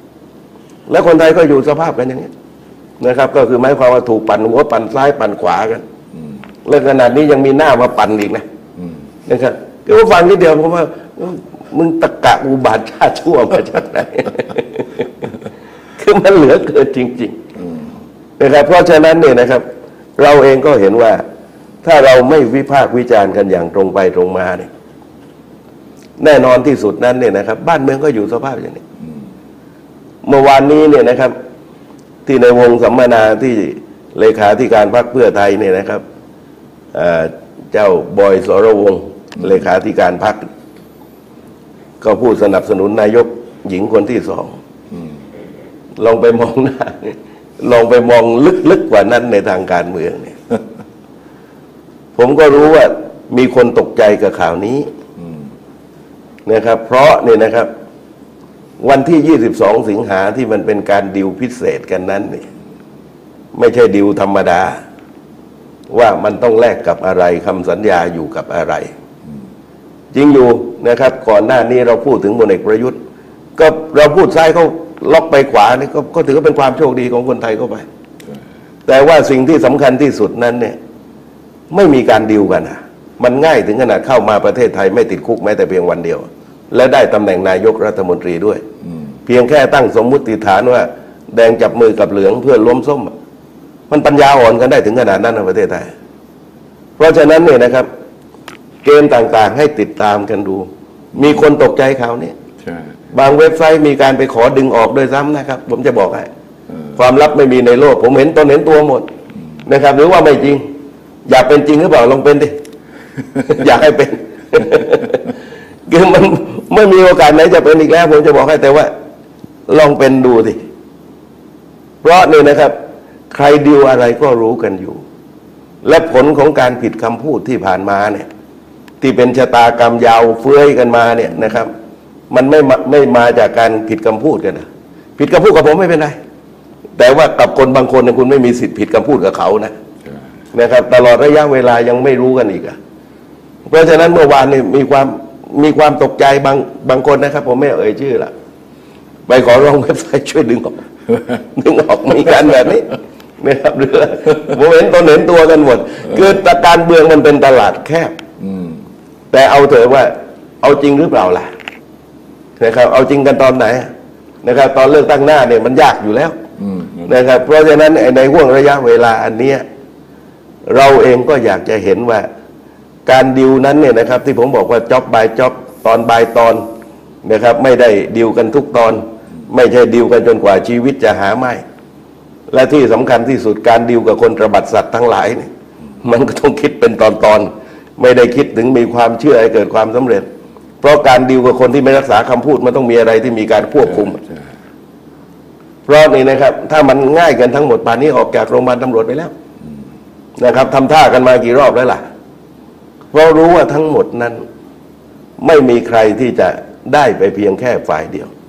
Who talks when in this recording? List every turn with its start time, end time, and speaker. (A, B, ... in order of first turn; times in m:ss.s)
0:00.9-0:02.3 A
0:03.0-0:05.8 A
0:06.6-0:08.4 A
0:09.2-0:15.3 A
0:16.0-0:17.4 A
0:17.6-0:17.8 B
0:18.4-0:19.6 A
0:20.2-0:21.2 A
0:21.8-0:24.7 A
0:26.2-0:28.8 A
0:30.2-0:31.3 A
0:32.2-0:36.0 A
0:36.9-0:40.4 A
0:42.0-0:44.6 A
0:46.0-0:50.4 A
0:52.2-0:54.9 A
0:56.4-0:57.7 A
0:58.8-1:02.5 A
1:03.5-1:04.8 A
1:05.9-1:08.9 A
1:10.1-1:13.0 A
1:13.6-1:17.8 A
1:18.9-1:20.8 A
1:21.7-1:28.6 A
1:29.2-1:33.1 A
1:33.9-1:35.9 A
1:37.0-1:37.9 A
1:38.8-1:42.3 A
1:42.6-1:42.9 B
1:43.1-1:46.3 A
1:47.0-1:49.1 A
1:49.6-1:50.6 A
1:51.2-1:52.6 A
1:53.4-1:55.3 A
1:55.9-1:58.9 A
1:59.7-2:00.6 A
2:02.0-2:02.8 A
2:03.3-2:05.0 A
2:05.8-2:08.3 A
2:09.0-2:11.7 A
2:12.3-2:14.7 A
2:15.2-2:16.2 A
2:17.0-2:19.7 A
2:20.5-2:22.8 A
2:23.7-2:28.3 A
2:29.3-2:38.1 A
2:38.4-2:38.8 B
2:39.3-2:41.5 A
2:42.6-2:43.9 A
2:44.4-2:46.4 A
2:46.6-2:47.1 B
2:47.0-2:49.6 A
2:50.7-2:52.3 A
2:53.0-2:56.7 A
2:57.2-3:01.6 A
3:02.5-3:05.5 A
3:06.0-3:10.3 A
3:10.8-3:14.2 A
3:14.1-3:14.5 B
3:15.9-3:19.3 A
3:20.4-3:22.0 A
3:23.1-3:24.4 A
3:25.4-3:28.3 A